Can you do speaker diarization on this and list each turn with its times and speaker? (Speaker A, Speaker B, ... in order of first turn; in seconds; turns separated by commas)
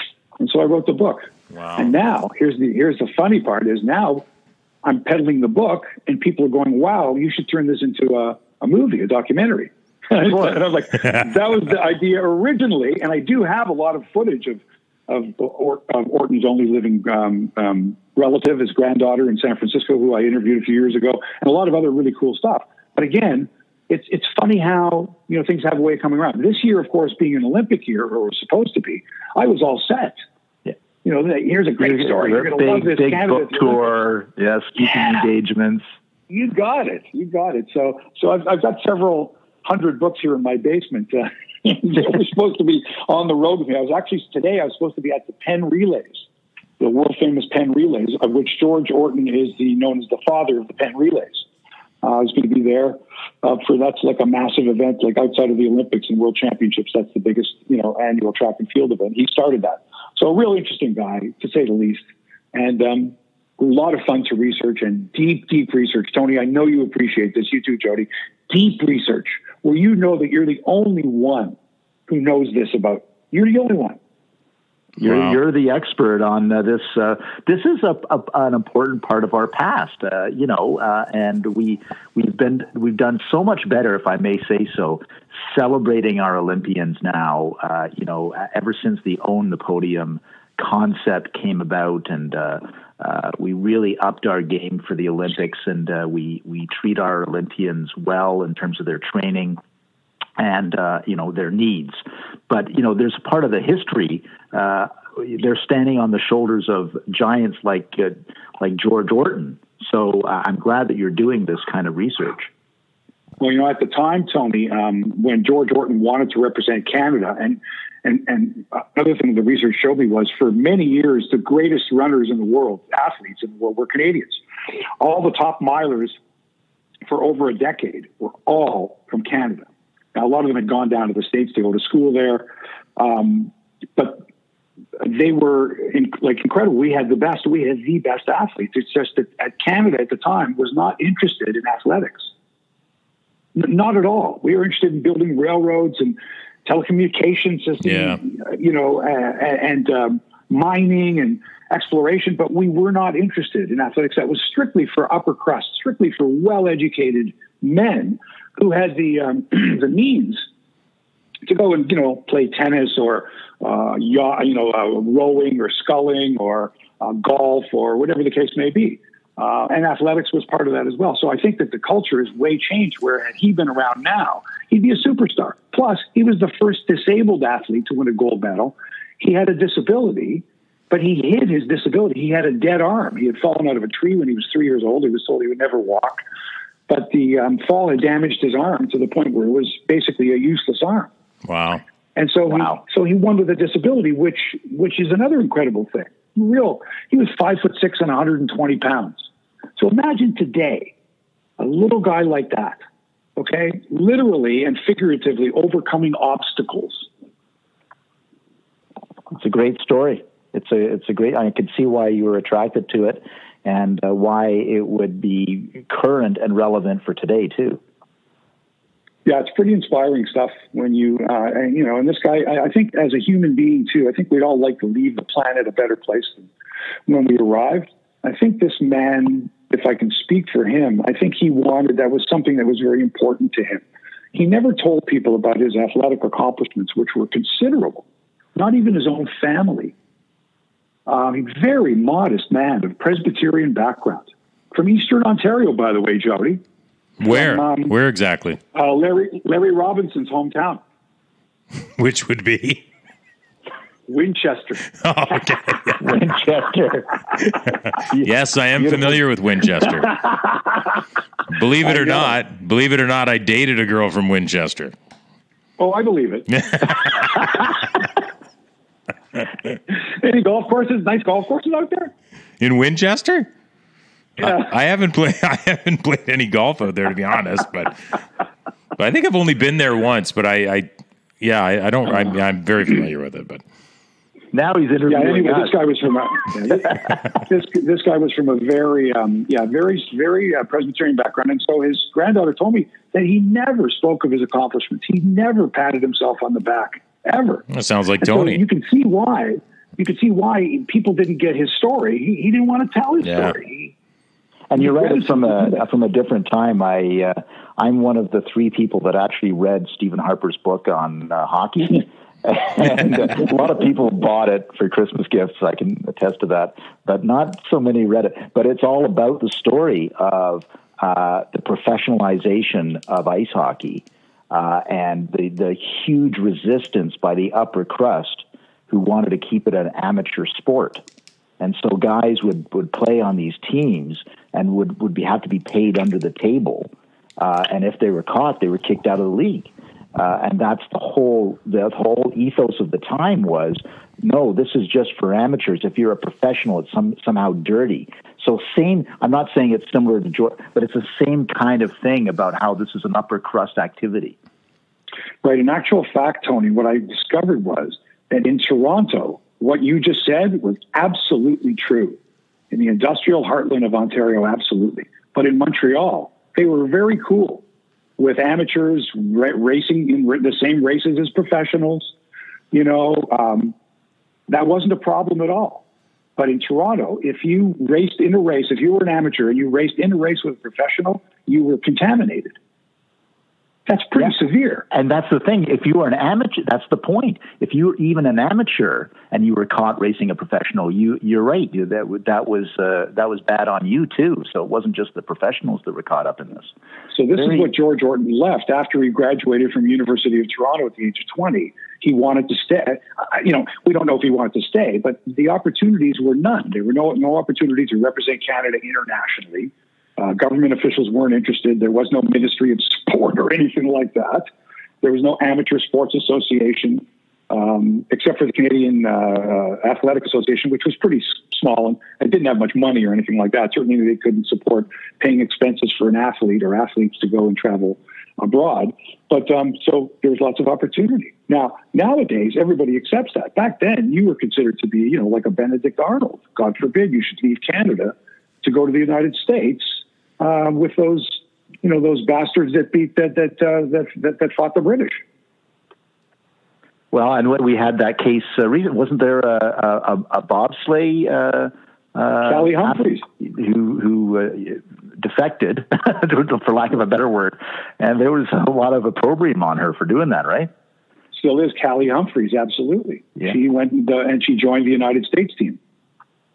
Speaker A: 0.4-4.2, Speaker B: 1.5-1.9, Speaker A: 4.8-30.2, Speaker A: 31.0-33.8, Speaker C: 31.8-35.8, Speaker A: 36.3-46.2, Speaker A: 46.8-51.4, Speaker A: 52.0-62.0, Speaker A: 62.5-71.6, Speaker A: 72.1-74.0, Speaker C: 75.0-99.6, Speaker B: 75.0-75.3, Speaker C: 100.4-102.0, Speaker C: 102.5-112.5, Speaker A: 113.4-124.4, Speaker A: 125.0-126.2, Speaker A: 127.0-134.2, Speaker A: 135.0-142.3, Speaker A: 143.5-160.4, Speaker B: 147.8-148.2, Speaker A: 161.4-186.2, Speaker A: 186.9-191.1, Speaker B: 191.4-191.8, Speaker A: 192.2-199.2, Speaker A: 199.8-200.9, Speaker A: 201.6-202.8, Speaker A: 203.4-207.1, Speaker C: 209.3-217.8, Speaker A: 219.2-226.5, Speaker A: 227.1-238.0, Speaker A: 238.6-239.9, Speaker A: 241.1-246.6, Speaker B: 247.2-248.6, Speaker A: 247.3-247.9, Speaker A: 248.7-250.8, Speaker B: 252.0-252.8, Speaker A: 254.1-254.9, Speaker B: 255.0-256.0, Speaker C: 256.0-257.5, Speaker B: 258.1-260.1, Speaker C: 258.8-259.1, Speaker B: 261.5-264.9, Speaker A: 265.8-266.5, Speaker B: 266.5-267.5, Speaker A: 269.9-272.1, Speaker B: 272.6-273.5, Speaker B: 274.4-278.2, Speaker B: 279.0-280.9, Speaker B: 281.4-283.6, Speaker C: 284.5-285.7, Speaker A: 285.1-297.6, Speaker B: 297.7-298.6, Speaker A: 298.2-303.9, Speaker B: 303.2-303.5, Speaker C: 304.7-331.0, Speaker A: 304.8-305.8, Speaker C: 331.6-354.4, Speaker A: 355.4-362.2, Speaker A: 362.7-367.6, Speaker A: 368.2-372.1, Speaker A: 372.7-373.7, Speaker A: 374.5-375.8, Speaker A: 376.4-382.5, Speaker A: 383.9-384.8, Speaker C: 384.9-396.7, Speaker A: 397.1-414.5, Speaker C: 397.4-397.7, Speaker A: 415.0-445.2, Speaker C: 447.1-460.7, Speaker A: 452.4-453.2, Speaker A: 461.3-465.8